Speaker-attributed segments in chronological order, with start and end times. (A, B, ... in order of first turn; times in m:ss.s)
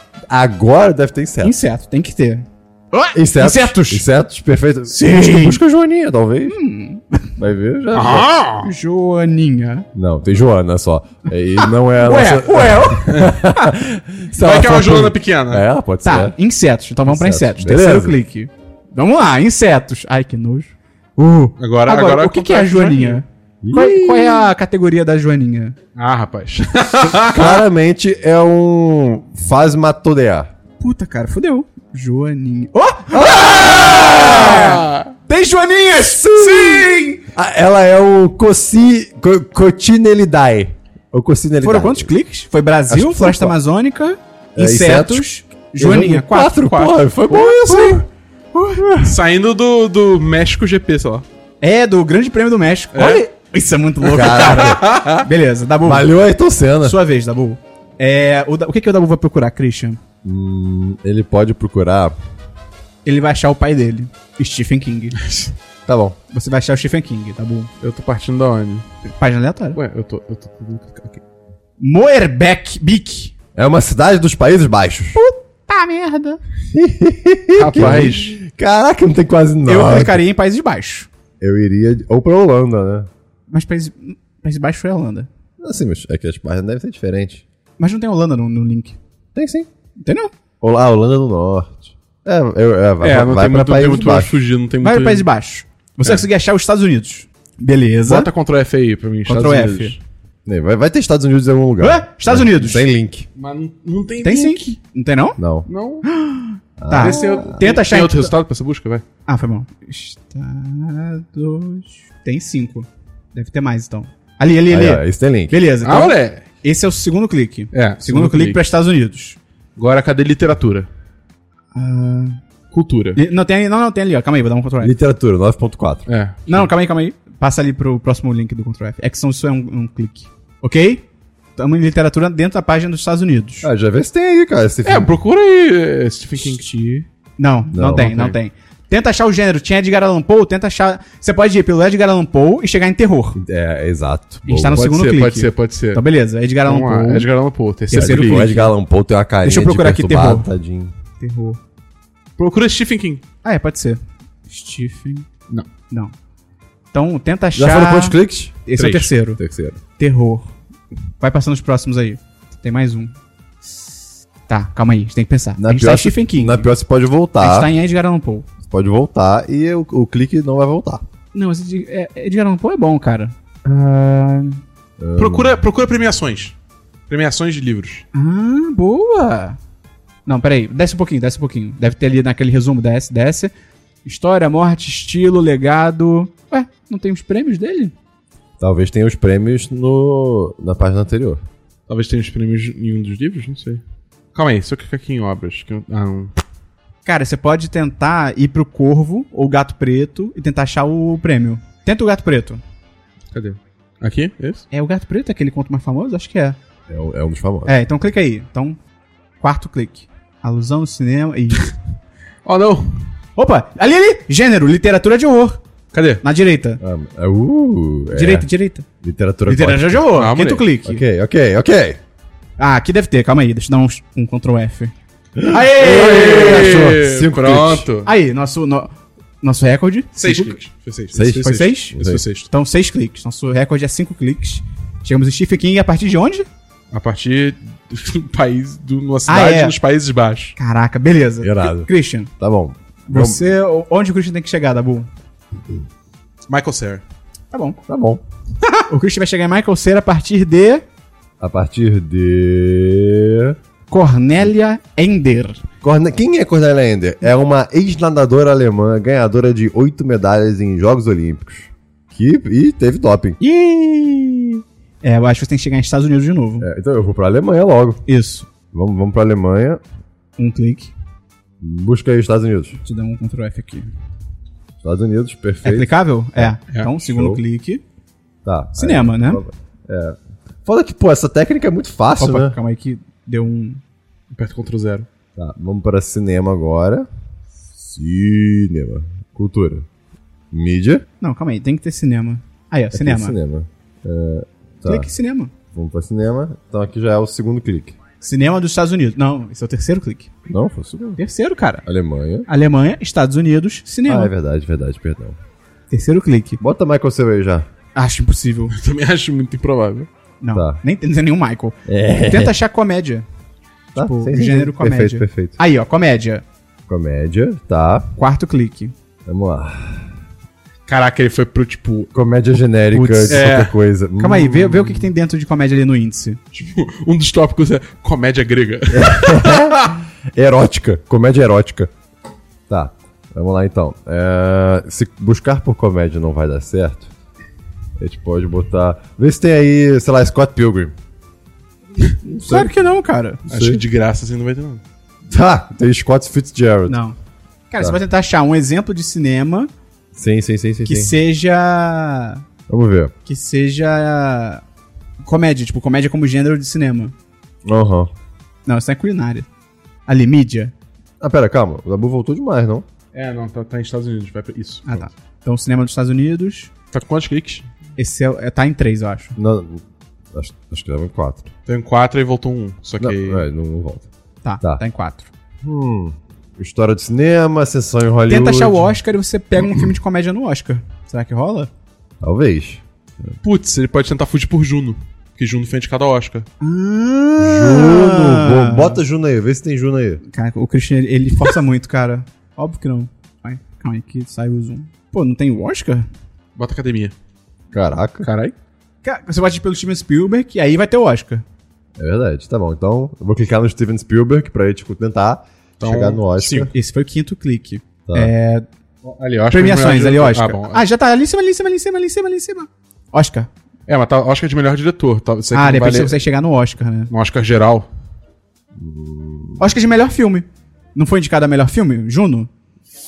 0:00.3-0:01.6 A
0:01.4-0:04.1 B
0:03.2-0:06.6 A
0:04.9-0:05.6 B
0:06.5-0:07.3 B
0:07.4-0:08.3 A
0:07.9-0:08.7 C
0:08.6-0:09.9 B
0:09.9-0:16.4 A
0:11.6-0:13.7 B
0:14.4-0:15.7 C
0:16.0-0:25.8 B
0:17.1-0:18.2 A
0:21.6-0:23.2 C
0:23.6-0:24.5 A
0:26.0-0:27.6 C
0:27.2-0:30.5 A
0:30.8-0:36.9 B
0:33.1-0:34.7 A
0:34.5-0:35.1 C
0:36.1-0:42.1 A
0:36.6-0:36.9 C
0:41.6-0:46.7 B
0:42.9-0:43.6 A
0:44.6-0:48.0 A
0:46.7-0:47.0 C
0:47.3-0:48.0 B
0:48.5-0:49.2 B
0:49.0-0:51.2 C
0:51.6-0:56.1 B
0:52.9-0:53.2 C
0:54.0-0:55.3 C
0:54.1-0:54.9 A
0:55.8-0:57.0 A
0:56.8-1:00.0 B
1:00.2-1:02.2 A
1:03.0-1:05.2 B
1:05.2-1:05.5 C
1:05.9-1:06.2 A
1:06.3-1:07.7 B
1:07.8-1:08.8 C
1:09.1-1:09.8 B
1:09.8-1:11.2 C
1:11.8-1:13.3 B
1:13.6-1:15.2 A
1:15.1-1:16.4 B
1:16.7-1:20.2 A
1:17.6-1:18.4 C
1:19.6-1:21.1 B
1:21.4-1:23.1 A
1:23.5-1:25.3 B
1:25.6-1:27.4 A
1:27.8-1:29.0 B
1:29.4-1:29.7 A
1:30.0-1:30.3 B
1:30.6-1:34.4 A
1:33.0-1:35.3 C
1:34.8-1:38.3 B
1:38.0-1:40.0 C
1:39.3-1:40.0 B
1:40.5-1:43.3 A
1:41.8-1:42.8 B
1:43.4-1:44.7 C
1:44.2-1:45.4 B
1:45.4-1:45.7 A
1:45.7-1:46.1 C
1:46.0-1:48.3 B
1:46.8-1:47.7 A
1:47.0-1:49.0 C
1:49.3-1:59.4 B
1:54.7-1:55.6 A
1:55.8-1:56.5 C
1:57.7-1:58.6 C
1:59.8-2:00.9 C
2:01.8-2:02.4 B
2:02.7-2:03.2 C
2:03.2-2:05.0 B
2:04.8-2:06.1 A
2:06.1-2:06.7 C
2:06.5-2:11.1 B
2:11.6-2:13.7 B
2:13.6-2:15.1 A
2:14.8-2:16.7 C
2:16.4-2:23.4 B
2:17.7-2:18.2 A
2:18.0-2:18.4 C
2:23.4-2:24.9 A
2:24.5-2:27.3 B
2:24.7-2:26.0 C
2:26.6-2:28.5 C
2:27.9-2:28.7 B
2:27.9-2:30.9 A
2:29.4-2:30.5 B
2:31.2-2:31.6 B
2:32.4-2:33.2 C
2:33.4-2:35.3 B
2:36.9-2:39.4 B
2:37.6-2:38.6 A
2:38.8-2:39.7 C
2:39.4-2:39.8 A
2:40.0-2:40.6 B
2:41.2-2:43.1 B
2:44.5-2:46.7 B
2:45.6-2:47.7 A
2:47.4-2:48.5 B
2:48.6-2:51.0 A
2:51.3-2:54.6 B
2:55.0-2:55.6 A
2:55.2-2:56.6 C
2:57.1-2:58.0 C
2:58.1-2:59.6 B
3:00.3-3:03.5 B
3:04.0-3:07.9 B
3:08.6-3:11.4 A
3:11.9-3:13.8 C
3:14.4-3:16.4 C
3:17.1-3:22.6 B
3:23.3-3:24.6 C
3:24.7-3:26.6 B
3:26.9-3:27.7 A
3:27.7-3:28.8 B
3:29.4-3:31.7 B
3:32.4-3:33.1 C
3:33.4-3:35.6 B
3:35.9-3:36.2 C
3:36.2-3:36.8 B
3:36.8-3:38.5 A
3:38.1-3:38.8 B
3:39.0-3:40.0 A
3:39.5-3:41.0 B
3:40.2-3:40.7 C
3:40.8-3:42.0 A
3:42.6-3:44.9 B
3:45.4-3:47.9 A
3:45.5-3:46.9 B
3:45.8-3:48.1 C
3:48.0-3:50.6 B
3:50.2-3:52.5 C
3:51.1-3:52.2 A
3:51.4-3:56.5 B
3:56.9-4:00.6 C
3:59.3-3:59.8 B
4:00.6-4:02.3 B
4:01.4-4:01.9 A
4:02.4-4:03.4 A
4:03.1-4:05.1 B
4:06.5-4:07.0 C
4:07.5-4:07.8 B
4:07.9-4:08.2 A
4:08.6-4:10.8 B
4:11.4-4:13.6 A
4:13.9-4:15.6 B
4:15.8-4:23.4 A
4:23.4-4:26.7 B
4:26.6-4:28.0 A
4:28.1-4:28.5 B
4:28.7-4:29.8 A
4:30.4-4:30.9 B
4:31.6-4:32.8 A
4:32.8-4:33.9 B
4:34.8-4:37.4 A
4:35.6-4:37.8 B
4:38.4-4:42.6 A
4:38.8-4:39.4 B
4:42.2-4:43.8 B
4:44.3-4:45.1 C
4:45.4-4:47.1 A
4:47.8-4:49.9 A
4:50.5-4:51.1 A
4:51.2-4:53.4 B
4:52.9-4:55.1 A
4:54.8-4:55.5 B
4:55.7-4:58.0 A
4:58.2-5:00.3 B
5:00.5-5:01.2 A
5:01.2-5:01.8 B
5:01.8-5:02.5 A
5:02.5-5:04.3 B
5:04.1-5:05.4 A
5:05.9-5:06.6 B
5:06.6-5:07.7 A
5:08.0-5:08.8 B
5:08.7-5:10.1 C
5:10.4-5:13.2 B
5:10.5-5:10.8 A
5:11.9-5:12.6 A
5:13.9-5:15.6 A
5:14.0-5:16.4 B
5:16.9-5:18.1 A
5:18.2-5:18.9 B
5:19.3-5:20.1 A
5:20.9-5:22.1 C
5:22.1-5:24.6 A
5:22.9-5:23.5 B
5:23.3-5:23.7 C
5:24.2-5:26.4 B
5:24.4-5:25.1 C
5:26.5-5:30.0 C
5:28.9-5:31.9 A
5:32.7-5:37.1 A
5:38.0-5:40.9 A
5:42.2-5:42.8 A
5:42.5-5:43.4 B
5:43.5-5:43.8 A
5:43.5-5:44.8 C
5:45.3-5:47.0 A
5:46.9-5:47.2 B
5:47.7-5:49.7 B
5:50.1-5:51.2 A
5:50.8-5:52.4 B
5:52.7-5:53.1 A
5:53.3-5:54.6 B
5:55.2-5:57.1 B
5:57.6-5:58.1 A
5:58.7-5:59.5 B
6:00.1-6:00.7 B
6:01.2-6:02.9 A
6:03.1-6:05.1 C
6:04.9-6:06.7 B
6:06.9-6:07.7 C
6:08.0-6:09.4 B
6:09.4-6:11.5 A
6:11.7-6:13.4 C
6:13.0-6:14.1 A
6:14.4-6:15.3 B
6:15.6-6:18.9 A
6:18.3-6:21.7 B
6:22.2-6:23.3 A
6:23.4-6:26.5 C
6:26.6-6:29.0 B
6:27.4-6:30.2 A
6:30.3-6:36.1 B
6:36.6-6:37.1 C
6:37.7-6:38.3 A
6:38.2-6:38.5 C
6:39.0-6:41.4 B
6:42.0-6:46.7 A
6:45.8-6:46.7 C
6:46.7-6:48.7 B
6:48.1-6:48.3 A
6:49.0-6:50.8 C
6:49.5-6:53.5 B
6:53.9-6:56.2 C
6:55.5-6:57.1 B
6:57.1-6:57.9 C
6:58.8-6:59.7 A
6:59.6-7:02.5 B